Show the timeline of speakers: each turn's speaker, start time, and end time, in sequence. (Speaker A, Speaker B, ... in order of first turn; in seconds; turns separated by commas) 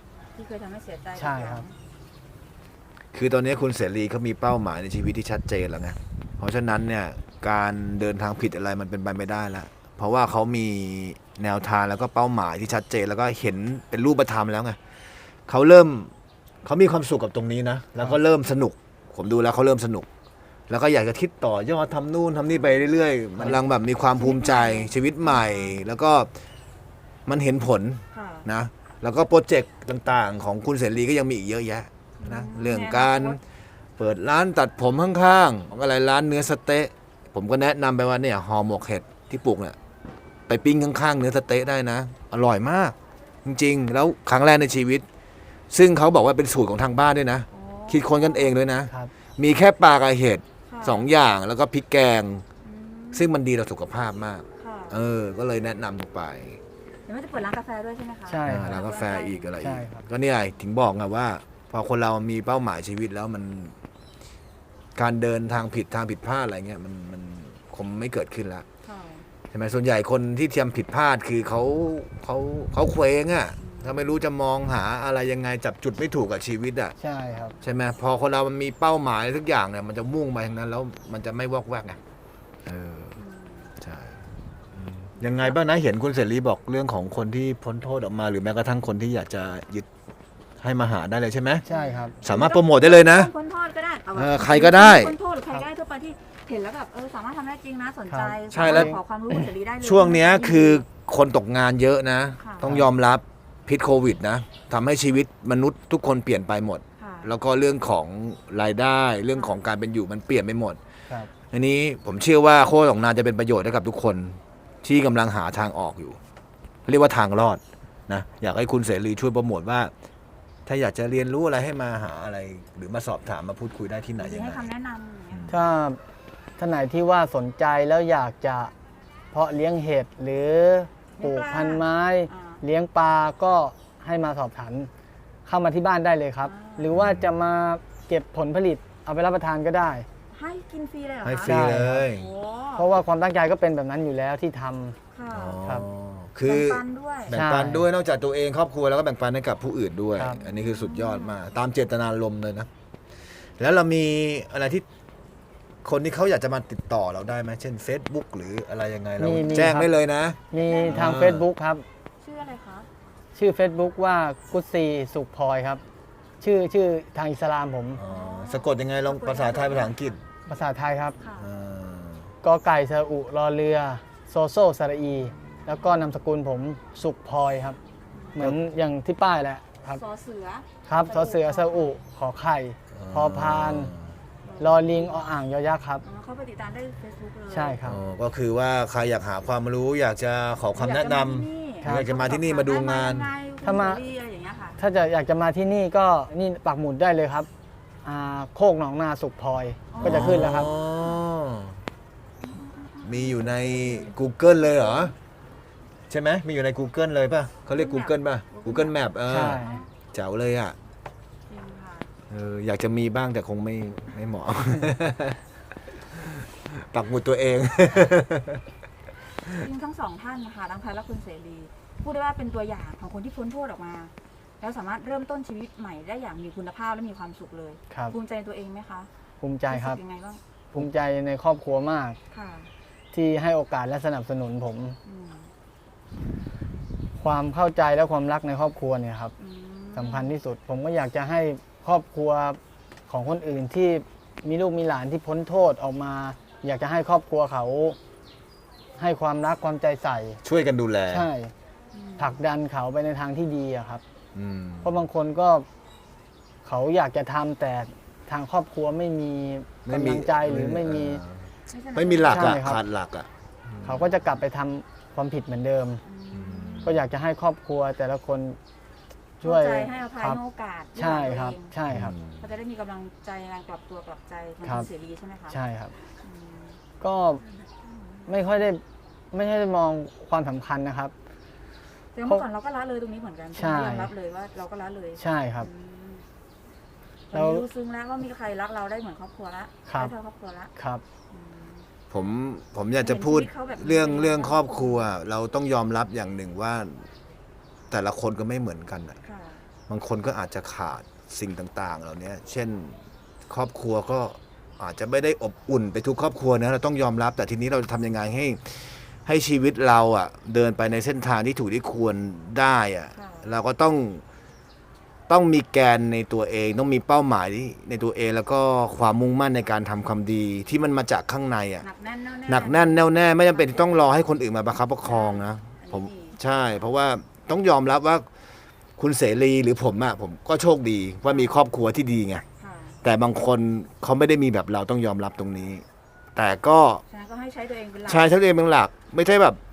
Speaker A: 0.3-1.7, Speaker B: 1.2-1.6, Speaker C: 3.1-14.8, Speaker C: 15.5-16.1, Speaker C: 16.6-20.1, Speaker C: 20.7-26.3, Speaker B: 23.4-23.6, Speaker A: 24.2-25.8, Speaker C: 27.3-33.4, Speaker A: 28.1-28.5, Speaker A: 32.2-33.4, Speaker C: 34.0-39.8, Speaker C: 40.5-45.0, Speaker C: 45.7-52.5, Speaker A: 47.5-48.6, Speaker A: 50.7-51.1, Speaker A: 52.6-53.3, Speaker C: 53.1-56.6, Speaker A: 54.6-55.0, Speaker A: 57.1-59.6, Speaker B: 58.3-58.8, Speaker C: 58.5-63.8, Speaker B: 59.6-60.0, Speaker C: 65.0-68.7, Speaker A: 68.8-69.3, Speaker C: 69.5-77.0, Speaker A: 73.6-74.2, Speaker B: 77.0-77.6, Speaker A: 77.3-77.6, Speaker C: 77.6-82.0, Speaker C: 82.7-83.2, Speaker A: 83.2-83.7, Speaker C: 83.8-84.2, Speaker C: 84.7-89.9, Speaker A: 85.2-85.5, Speaker C: 90.6-91.7, Speaker B: 91.6-92.2, Speaker A: 91.7-100.8, Speaker C: 92.2-93.3, Speaker C: 94.1-95.2, Speaker B: 98.1-99.4, Speaker C: 98.5-99.0, Speaker C: 99.8-110.8, Speaker A: 102.4-102.7, Speaker A: 107.0-107.3, Speaker A: 109.3-109.6, Speaker C: 111.5-116.2, Speaker C: 116.9-119.9, Speaker C: 120.7-124.7, Speaker A: 124.2-125.6, Speaker C: 125.3-125.6, Speaker B: 125.5-126.0, Speaker B: 126.6-128.7, Speaker B: 129.3-134.9, Speaker A: 131.2-132.6, Speaker B: 135.5-140.1, Speaker A: 136.4-136.9, Speaker C: 136.9-137.4, Speaker A: 140.3-142.9, Speaker C: 141.2-142.3, Speaker B: 141.5-142.1, Speaker B: 142.8-145.0, Speaker A: 145.1-145.7, Speaker C: 145.3-152.7, Speaker A: 146.4-147.4, Speaker B: 147.3-147.9, Speaker A: 150.4-151.4, Speaker C: 153.6-154.9, Speaker C: 155.8-161.5, Speaker B: 159.2-159.9, Speaker B: 160.5-161.8, Speaker A: 160.5-161.1, Speaker A: 162.2-162.9, Speaker B: 163.3-165.8, Speaker B: 166.4-168.0, Speaker C: 168.0-170.2, Speaker A: 168.1-170.2, Speaker B: 170.5-171.2, Speaker A: 171.2-171.5, Speaker C: 171.4-172.3, Speaker B: 172.4-177.8, Speaker A: 178.1-178.5, Speaker B: 178.4-180.0, Speaker A: 179.9-182.0, Speaker B: 180.9-183.9, Speaker C: 182.9-184.2, Speaker A: 184.4-185.3, Speaker B: 184.6-186.0, Speaker A: 186.0-187.8, Speaker B: 187.5-188.0, Speaker C: 187.8-193.3, Speaker A: 190.8-194.8, Speaker B: 191.8-192.1, Speaker B: 193.6-194.0, Speaker B: 194.8-197.5, Speaker B: 198.0-200.7, Speaker A: 199.9-201.2, Speaker C: 200.0-201.8, Speaker A: 202.4-204.2, Speaker C: 203.0-205.1, Speaker A: 204.8-205.1, Speaker C: 206.1-210.8, Speaker A: 207.7-209.9, Speaker B: 209.3-209.8, Speaker A: 211.5-212.1, Speaker C: 212.3-215.4, Speaker C: 215.9-218.6, Speaker A: 219.5-229.1, Speaker B: 229.4-230.0, Speaker A: 229.7-230.4, Speaker B: 230.7-232.2, Speaker A: 232.3-232.7, Speaker B: 233.1-235.0, Speaker A: 235.1-235.5, Speaker B: 237.2-239.3, Speaker A: 239.4-240.3, Speaker B: 239.9-248.0, Speaker B: 249.0-250.4, Speaker C: 250.4-251.3, Speaker B: 251.1-251.5, Speaker A: 251.9-252.4, Speaker B: 252.2-254.0, Speaker C: 254.3-255.0, Speaker B: 254.8-255.7, Speaker B: 256.6-261.2, Speaker C: 259.9-264.2, Speaker A: 261.7-262.6, Speaker B: 262.3-262.8, Speaker B: 263.8-266.0, Speaker A: 266.0-266.9, Speaker C: 266.3-267.0, Speaker B: 266.8-268.6, Speaker A: 269.4-271.7, Speaker B: 269.4-270.4, Speaker B: 271.0-272.2, Speaker C: 271.9-272.5, Speaker A: 272.4-275.6, Speaker B: 274.6-274.9, Speaker B: 275.5-275.9, Speaker A: 276.2-276.8, Speaker B: 277.0-277.4, Speaker A: 277.5-278.3, Speaker B: 278.3-281.1, Speaker A: 282.1-286.2, Speaker B: 283.6-284.1, Speaker B: 285.2-285.7, Speaker A: 287.3-290.7, Speaker B: 287.3-287.6, Speaker B: 290.8-291.0, Speaker A: 291.3-291.9, Speaker C: 292.1-297.1, Speaker A: 293.0-295.1, Speaker C: 297.9-299.2, Speaker A: 299.2-299.6, Speaker C: 299.9-314.2, Speaker A: 313.2-313.5, Speaker C: 315.3-321.9, Speaker A: 321.8-324.1, Speaker C: 322.5-328.3, Speaker A: 325.1-326.4, Speaker C: 329.0-332.4, Speaker A: 331.3-331.6, Speaker A: 332.6-333.0, Speaker C: 333.0-337.0, Speaker A: 337.1-338.3, Speaker C: 338.1-339.6